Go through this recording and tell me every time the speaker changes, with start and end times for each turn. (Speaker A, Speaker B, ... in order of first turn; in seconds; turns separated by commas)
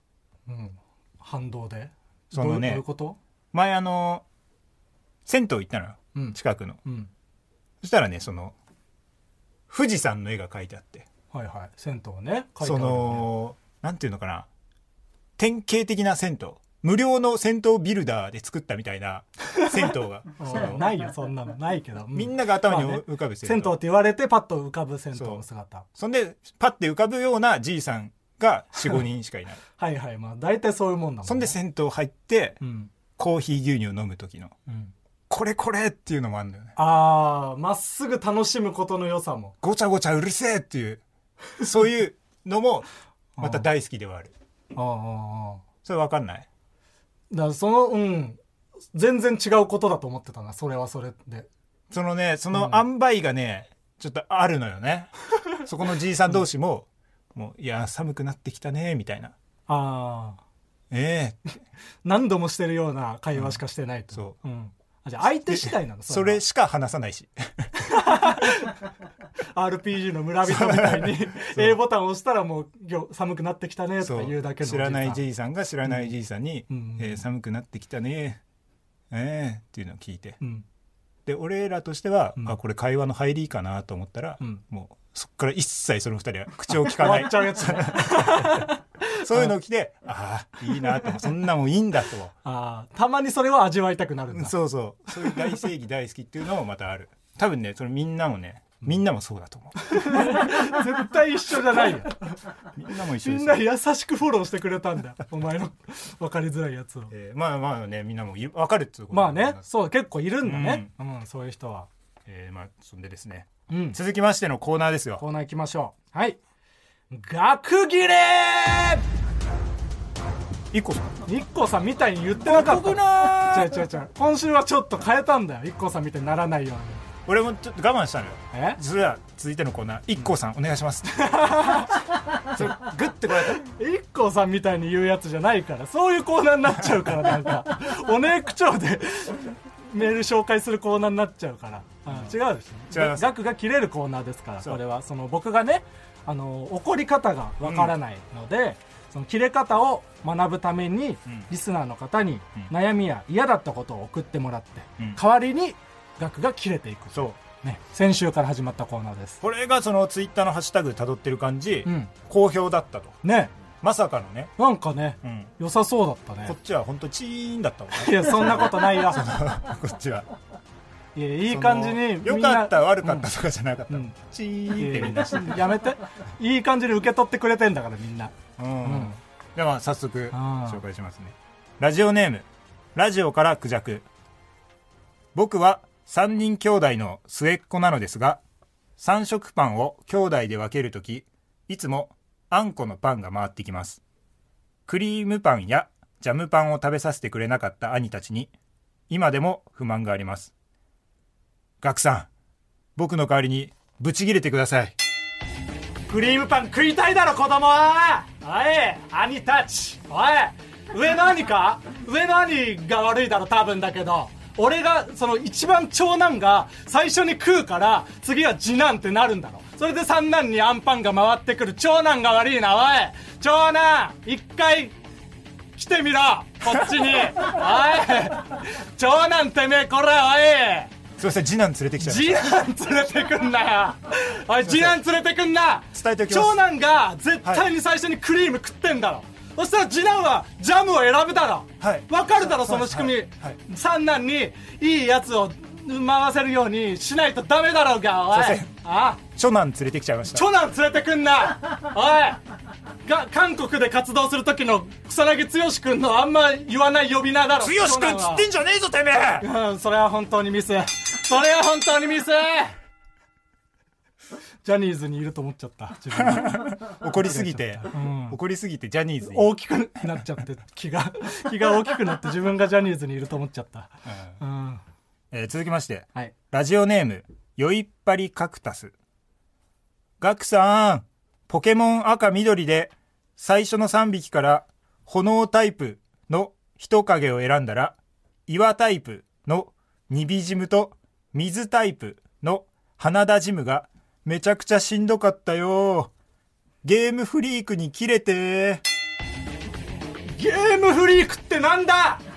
Speaker A: 0.5-3.2, Speaker B: 2.3-2.8, Speaker B: 3.5-4.2, Speaker B: 5.2-6.8, Speaker A: 6.1-7.1, Speaker B: 7.8-8.5, Speaker B: 9.7-11.1, Speaker A: 11.3-13.3, Speaker B: 12.6-14.5, Speaker B: 15.4-20.9, Speaker A: 20.4-25.9, Speaker B: 22.1-23.8, Speaker B: 25.1-25.4, Speaker B: 25.9-29.6, Speaker A: 29.8-31.6, Speaker B: 31.2-32.6, Speaker A: 32.6-32.9, Speaker B: 33.2-34.5, Speaker A: 34.7-34.9, Speaker B: 35.3-36.7, Speaker A: 36.8-39.5, Speaker B: 39.6-41.0, Speaker B: 41.6-42.9, Speaker A: 43.4-43.7, Speaker B: 43.4-44.3, Speaker A: 44.7-45.6, Speaker B: 45.8-46.5, Speaker A: 47.3-48.4, Speaker A: 48.9-51.5, Speaker B: 51.9-59.3, Speaker A: 52.5-52.8, Speaker A: 59.7-60.4, Speaker B: 60.9-61.4, Speaker A: 62.0-66.4, Speaker B: 63.3-63.6, Speaker B: 65.5-67.7, Speaker A: 67.8-68.8, Speaker A: 69.5-75.2, Speaker B: 70.4-71.8, Speaker B: 74.0-78.4, Speaker A: 76.7-77.2, Speaker B: 79.1-80.4, Speaker B: 81.2-92.3, Speaker A: 86.7-89.5, Speaker A: 92.4-94.5, Speaker B: 94.3-100.8, Speaker A: 95.2-95.5, Speaker A: 99.8-102.3, Speaker B: 102.7-103.6, Speaker A: 103.2-107.1, Speaker B: 107.1-109.6, Speaker A: 109.1-111.9, Speaker B: 110.4-110.9, Speaker B: 112.2-115.2, Speaker A: 113.7-114.0, Speaker A: 115.2-116.4, Speaker A: 117.1-119.0, Speaker B: 120.7-121.1, Speaker A: 121.2-127.0, Speaker B: 122.4-123.8, Speaker B: 127.2-133.6, Speaker A: 128.5-128.8, Speaker A: 131.2-132.8, Speaker A: 133.5-159.4, Speaker B: 142.1-142.3, Speaker B: 142.9-143.3, Speaker B: 147.6-147.9, Speaker B: 159.4-163.2, Speaker A: 161.8-162.1, Speaker A: 163.2-163.5, Speaker B: 163.7-164.5, Speaker A: 164.6-166.6, Speaker B: 165.2-165.5, Speaker B: 166.4-170.3, Speaker A: 167.9-169.2, Speaker A: 171.1-173.3, Speaker B: 171.4-175.7, Speaker A: 174.7-179.2, Speaker B: 178.6-184.1, Speaker A: 180.3-180.8, Speaker B: 185.3-188.4, Speaker B: 189.0-194.0, Speaker B: 194.9-198.5, Speaker B: 199.1-200.5, Speaker B: 201.8-202.3, Speaker B: 202.9-204.9, Speaker A: 206.1-224.9, Speaker A: 225.8-230.9, Speaker B: 231.2-232.6, Speaker A: 232.0-249.2, Speaker B: 234.6-235.0, Speaker B: 235.9-236.6, Speaker B: 241.8-243.6, Speaker B: 248.3-250.4, Speaker A: 250.3-252.4, Speaker A: 253.0-258.5, Speaker B: 257.6-259.5, Speaker A: 259.4-262.8, Speaker A: 264.6-268.4, Speaker B: 266.1-269.6, Speaker A: 269.2-274.8, Speaker B: 274.1-274.4, Speaker B: 275.3-278.9, Speaker B: 280.2-296.1, Speaker B: 296.8-298.8, Speaker A: 300.3-302.2